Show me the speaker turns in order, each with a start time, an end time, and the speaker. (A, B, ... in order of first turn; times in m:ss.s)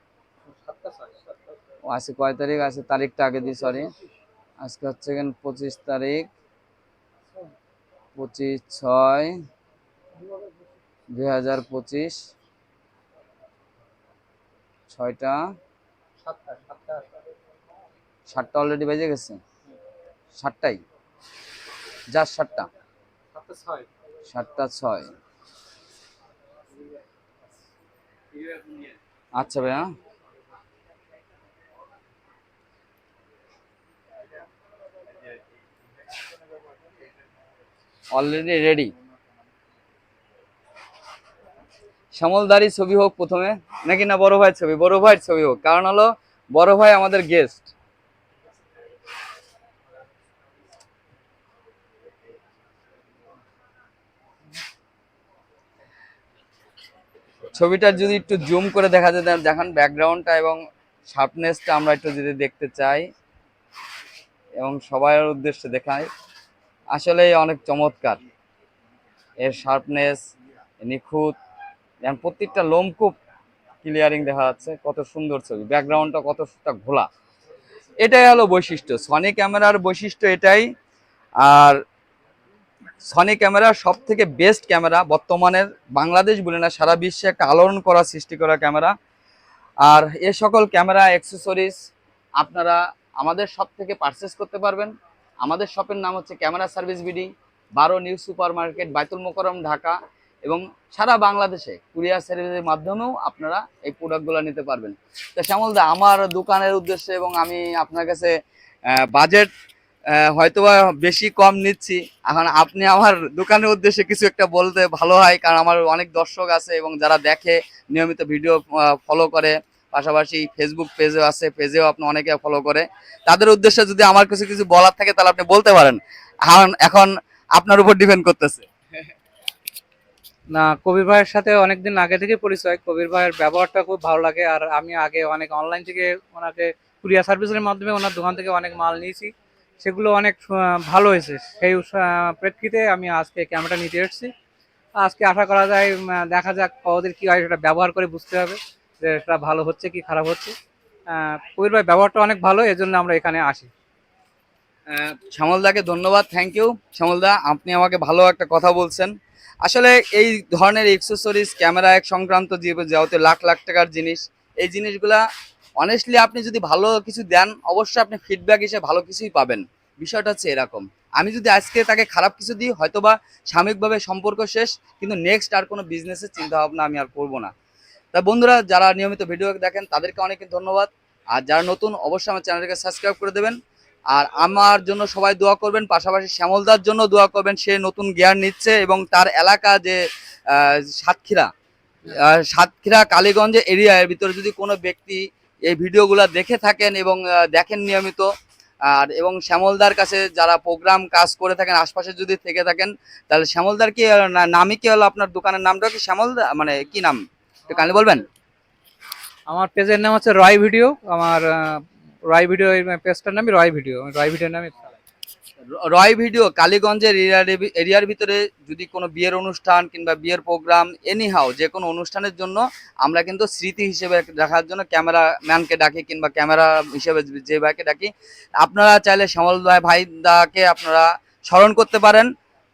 0:00.4-0:01.6 A
0:01.9-0:03.9 B
0:04.6-0:06.3 B
0:08.2-0:09.4 B
0:11.1-0:12.2 B
0:14.9-0:15.4 B
0:16.2-0:17.1 A
0:18.3-0:19.4 B
0:20.4-0:20.8 B
0:22.1-0:22.7 B
0:23.3-0:23.9 A
0:24.3-0:25.1 B
0:28.3-0:28.9 A
0:29.4-0:29.9 B
0:38.1-0:38.9 B
0:42.1-0:47.7 B
0:57.5-1:03.1 B
1:04.6-1:06.1 B
1:06.9-1:08.2 B
1:09.4-1:10.2 B
1:10.8-1:11.3 B
1:12.0-1:13.1 B
1:13.8-1:17.1 B
1:18.0-1:20.7 B
1:21.4-1:21.8 B
1:23.0-1:28.9 B
1:29.8-1:31.7 B
1:32.4-1:34.9 B
1:35.4-1:48.3 B
1:48.9-1:49.5 B
1:50.1-2:08.7 B
2:10.5-2:24.3 A
2:25.0-2:30.5 A
2:31.1-2:33.7 A
2:34.9-2:39.1 B
2:39.6-2:45.2 B
2:45.8-2:57.5 B
2:58.1-3:03.6 B
3:04.1-3:11.5 B
3:12.1-3:18.3 B
3:18.8-3:28.2 B
3:29.5-3:35.0 A
3:35.7-3:52.3 B